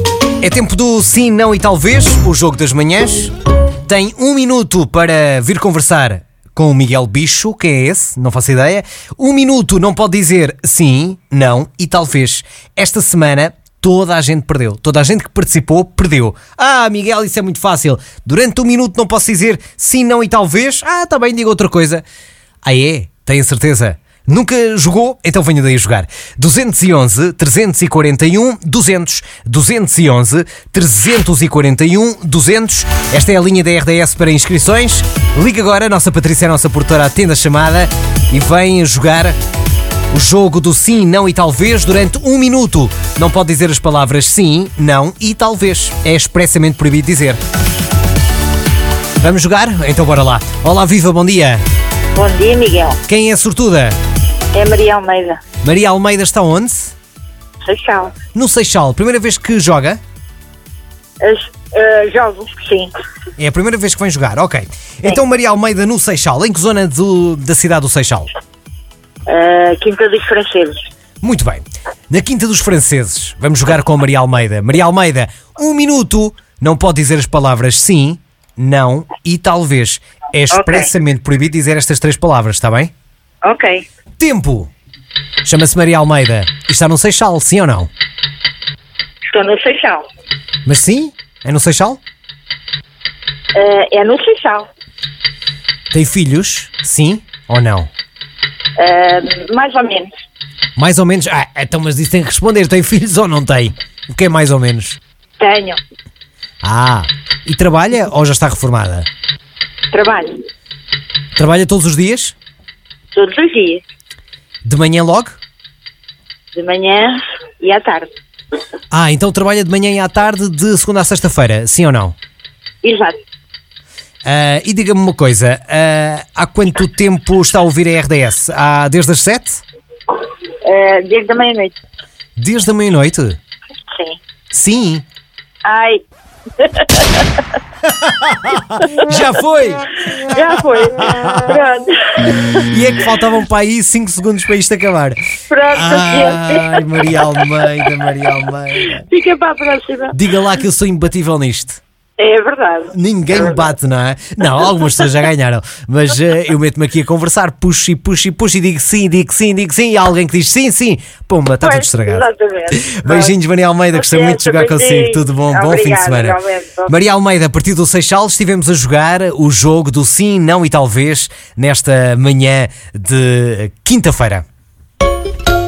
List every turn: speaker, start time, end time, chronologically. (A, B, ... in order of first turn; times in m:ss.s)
0:00.4-0:03.3 A
0:03.9-0:22.0 A
0:22.6-0:39.3 A
0:40.1-0:47.4 A
0:49.2-0:51.6 A
0:52.1-0:53.0 B
0:53.1-0:54.0 A
0:54.5-0:55.4 B
0:55.6-0:56.9 A
0:57.6-0:58.2 B
0:58.3-1:00.0 A
1:01.2-1:02.9 B
1:03.4-1:08.3 A
1:09.3-1:10.8 B
1:11.2-1:22.9 A
1:20.5-1:20.9 B
1:23.4-1:23.8 B
1:24.2-1:24.7 A
1:25.4-1:27.9 A
1:29.2-1:30.0 B
1:30.6-1:32.0 A
1:33.5-1:34.7 B
1:35.9-1:37.9 A
1:38.8-1:40.1 B
1:40.8-1:45.0 A
1:45.4-1:45.8 B
1:46.6-1:49.1 A
1:49.9-1:50.3 B
1:51.4-1:52.4 A
1:53.1-1:53.8 B
1:54.6-1:55.4 A
1:56.5-1:58.1 B
1:58.9-2:02.1 A
2:02.8-2:03.1 B
2:04.2-2:09.6 A
2:10.6-2:11.7 B
2:12.4-2:13.4 A
2:13.9-2:14.2 B
2:14.5-2:15.0 A
2:15.6-2:16.0 B
2:16.6-2:17.3 B
2:17.9-2:20.0 A
2:20.2-2:22.4 B
2:21.0-2:21.3 A
2:22.6-2:25.2 A
2:25.5-2:26.8 B
2:25.7-2:29.0 A
2:28.8-2:30.1 B
2:30.1-2:31.8 A
2:32.2-2:33.3 B
2:32.9-2:54.4 A
2:41.6-2:43.3 B
2:43.9-2:46.9 B